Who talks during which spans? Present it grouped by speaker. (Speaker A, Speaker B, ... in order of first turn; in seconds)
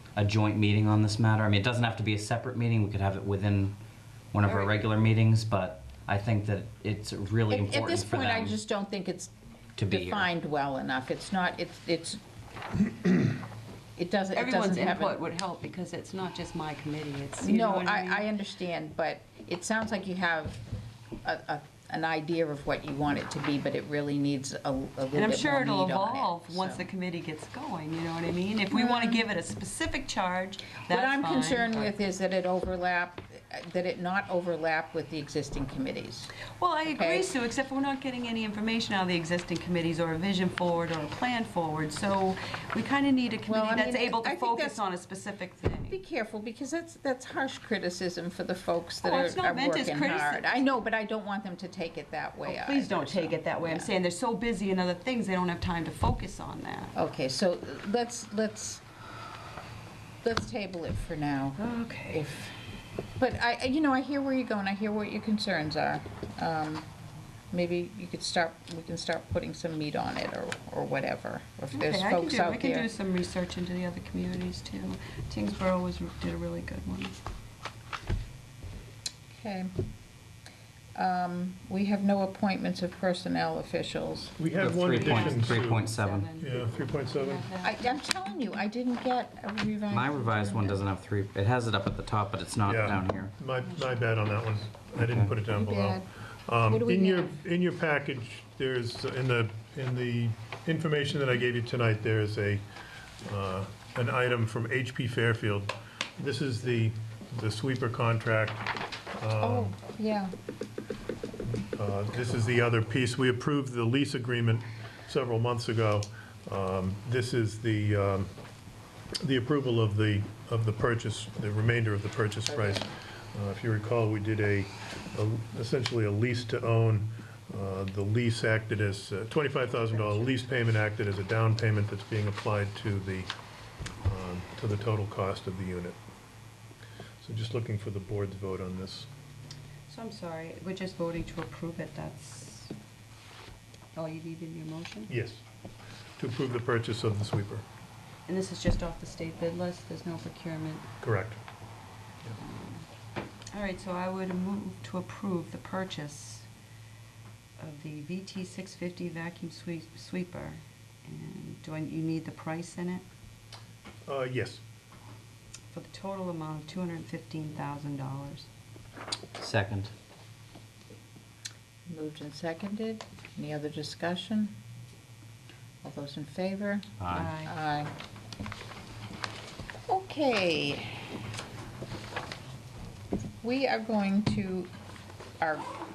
Speaker A: 0.1-3.8, 4.3-8.6, 9.8-10.3, 84.6-86.3, 89.9-93.3, 95.0-95.3, 169.4-169.9, 177.0-177.3
Speaker B: 4.5-4.8, 14.3-18.2, 25.1-31.9, 36.6-46.0, 49.0-50.7, 52.5-56.9, 61.6-62.2, 71.7-77.2, 84.8-88.0, 93.6-94.1, 139.9-142.7, 143.9-145.1, 148.3-150.9, 152.4-152.8, 153.5-156.5, 157.6-163.0, 165.7-168.5, 177.1-177.5
Speaker C: 7.5-9.3, 9.9-12.2, 14.0-15.2, 17.4-20.6, 21.2-26.8, 28.7-29.3, 30.9-36.3, 36.9-37.3, 43.5-44.8, 45.9-53.9, 56.9-58.8, 60.2-62.5, 63.2-66.9, 67.5-72.9, 79.3-79.7, 81.0-84.3, 87.6-90.8, 95.5-96.1, 96.7-97.4, 109.4-110.3, 122.5-122.8, 129.9-130.4, 171.9-174.5, 175.8-177.9, 179.9-181.1, 183.4-184.7, 185.4-185.7
Speaker D: 84.4-85.9, 86.4-87.5, 92.7-102.6, 103.2-109.7, 111.7-118.3, 119.2-133.3, 134.0-136.0, 137.2-139.1, 145.1-145.4, 146.2-147.6, 151.0-151.4, 164.1-164.6